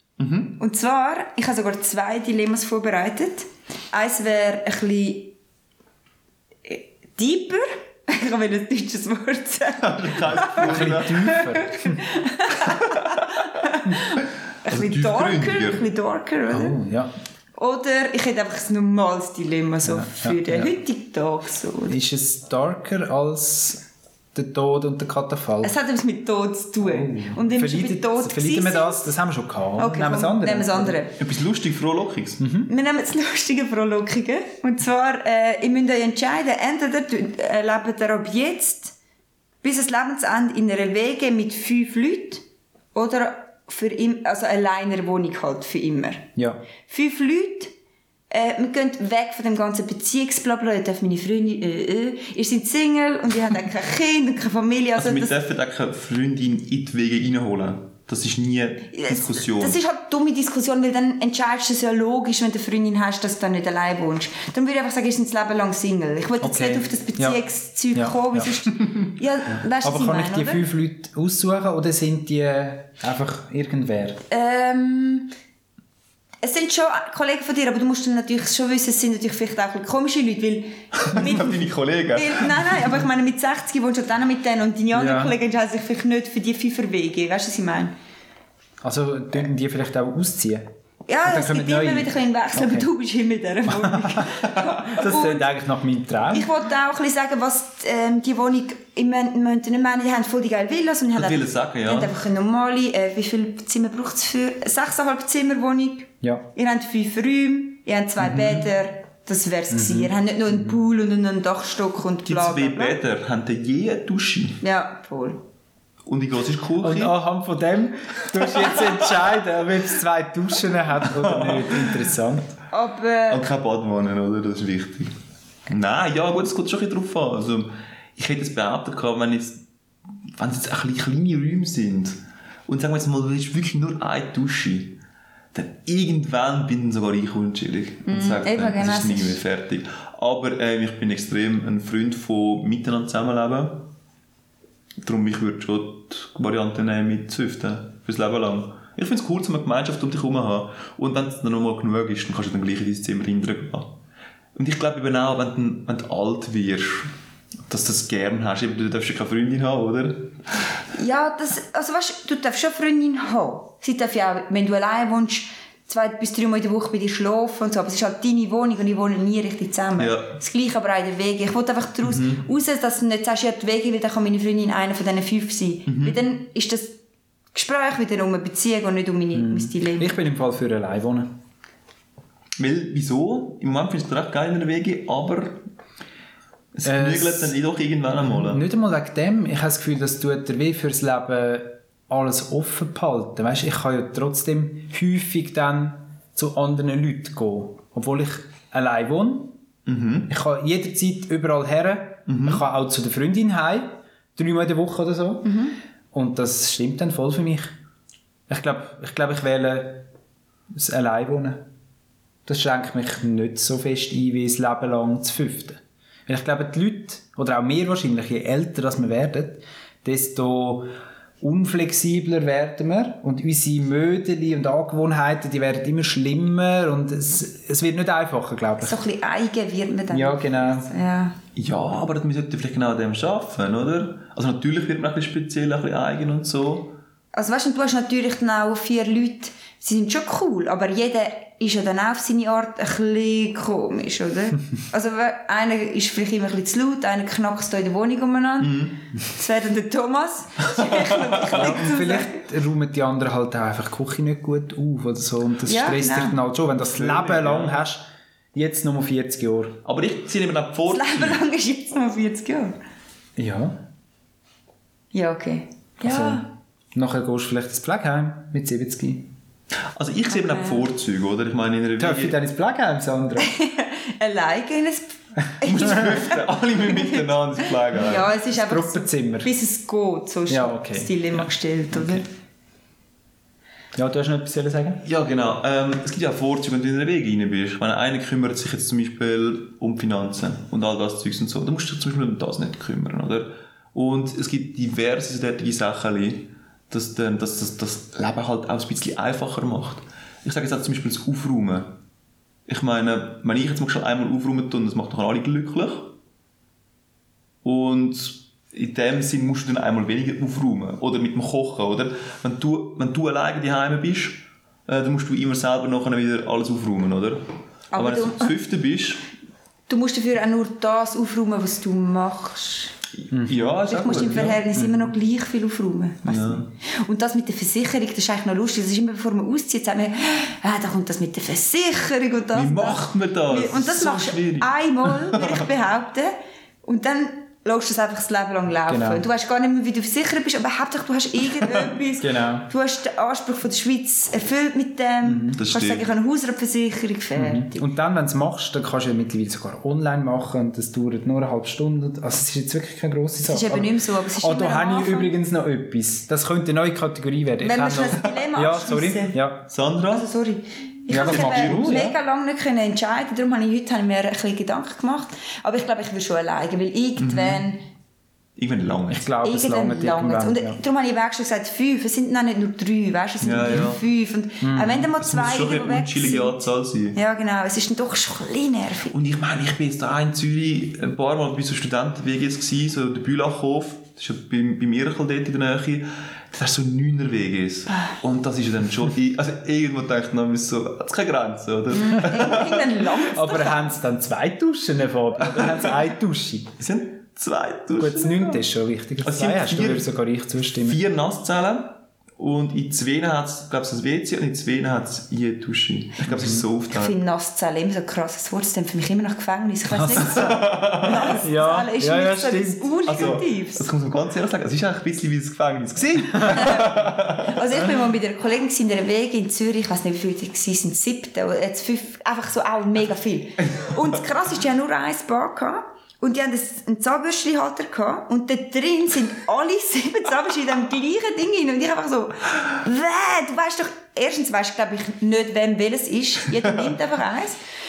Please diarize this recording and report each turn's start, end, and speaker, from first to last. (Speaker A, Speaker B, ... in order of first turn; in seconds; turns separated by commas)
Speaker A: 0.2-0.6, Speaker B: 0.6-5.3, Speaker B: 6.7-16.8, Speaker A: 9.8-11.4, Speaker C: 10.6-12.0, Speaker A: 14.7-15.8, Speaker C: 16.5-17.1, Speaker B: 17.6-21.9, Speaker C: 19.8-20.7, Speaker C: 21.9-23.8, Speaker C: 24.3-25.7, Speaker B: 25.6-29.1, Speaker C: 26.8-31.0, Speaker B: 29.8-31.2, Speaker A: 31.2-32.4, Speaker C: 32.4-32.7, Speaker B: 32.7-38.9, Speaker B: 39.6-46.3, Speaker B: 46.9-47.7, Speaker B: 48.3-55.3, Speaker A: 55.0-59.8, Speaker B: 58.9-70.6, Speaker C: 66.4-67.4, Speaker C: 67.9-68.5, Speaker C: 69.8-74.2, Speaker B: 74.3-75.3, Speaker B: 76.4-81.6, Speaker A: 81.0-82.8, Speaker B: 82.1-87.9, Speaker C: 84.9-85.3, Speaker C: 88.8-90.7, Speaker B: 91.1-95.4, Speaker C: 91.2-92.9, Speaker C: 93.7-94.3, Speaker C: 94.9-96.5, Speaker B: 96.3-113.0, Speaker A: 101.1-102.1, Speaker A: 108.2-108.7, Speaker C: 109.7-110.8, Speaker A: 112.2-114.6, Speaker B: 114.6-115.4, Speaker A: 116.0-117.1, Speaker C: 116.8-122.5, Speaker A: 121.2-121.9, Speaker B: 122.7-123.5, Speaker A: 123.3-125.1, Speaker A: 125.7-129.6, Speaker A: 130.3-135.0, Speaker A: 135.5-143.9, Speaker B: 138.1-139.4, Speaker A: 145.0-153.9, Speaker A: 154.5-157.1, Speaker A: 157.7-160.7, Speaker B: 160.9-176.9, Speaker A: 170.0-170.3, Speaker A: 172.0-172.4, Speaker A: 175.9-176.2, Speaker B: 177.5-180.2, Speaker C: 179.3-181.3, Speaker A: 182.6-185.6, Speaker A: 186.7-188.6, Speaker C: 186.8-187.6, Speaker C: 188.2-199.6, Speaker A: 199.8-200.3, Speaker C: 200.3-205.6, Speaker A: 202.3-202.6, Speaker B: 205.4-205.7, Speaker C: 206.1-207.7, Speaker C: 208.5-210.1, Speaker C: 210.7-211.6, Speaker C: 212.4-220.9, Speaker C: 221.4-229.0, Speaker B: 228.8-231.3, Speaker C: 230.1-230.9, Speaker A: 231.6-236.9, Speaker B: 237.3-252.4, Speaker A: 248.6-249.0, Speaker A: 250.7-251.5, Speaker C: 251.5-259.8, Speaker B: 255.6-256.4, Speaker A: 256.7-257.8, Speaker A: 259.8-261.4, Speaker B: 260.9-262.7, Speaker C: 263.4-263.8, Speaker B: 265.1-266.4, Speaker C: 266.0-269.3, Speaker A: 269.9-272.4, Speaker B: 270.4-270.9, Speaker C: 272.0-273.5, Speaker B: 273.4-282.2, Speaker A: 275.6-278.3, Speaker C: 278.5-279.5, Speaker C: 280.5-281.4, Speaker C: 283.9-285.0, Speaker A: 285.0-302.0, Speaker A: 302.7-306.1, Speaker A: 307.6-319.3, Speaker B: 317.9-318.5, Speaker B: 319.9-322.9, Speaker A: 323.2-324.6, Speaker C: 323.3-323.7, Speaker B: 323.8-347.8, Speaker C: 324.7-325.1, Speaker A: 326.2-326.7, Speaker A: 332.5-335.7, Speaker C: 338.9-339.2, Speaker C: 342.2-342.7, Speaker C: 345.2-345.6, Speaker A: 345.6-346.1, Speaker C: 347.3-359.6, Speaker B: 353.4-355.3, Speaker B: 357.6-359.4, Speaker A: 359.7-360.3, Speaker B: 360.1-367.8, Speaker C: 361.1-362.1, Speaker A: 361.1-362.0, Speaker A: 367.2-367.6, Speaker A: 368.6-369.3, Speaker C: 369.1-370.8, Speaker B: 369.4-376.6, Speaker A: 373.4-374.0, Speaker C: 374.6-375.1, Speaker A: 375.2-377.2, Speaker B: 377.1-379.1, Speaker A: 379.1-393.0, Speaker B: 391.9-393.9, Speaker C: 393.3-396.8, Speaker A: 396.8-398.6, Speaker C: 398.0-401.0, Speaker A: 399.2-400.1, Speaker A: 400.8-407.2, Speaker C: 406.2-406.6, Speaker B: 406.9-413.9, Speaker C: 409.9-412.9, Speaker A: 410.2-411.4, Speaker A: 413.0-417.8, Speaker C: 416.0-416.8, Speaker B: 416.5-437.6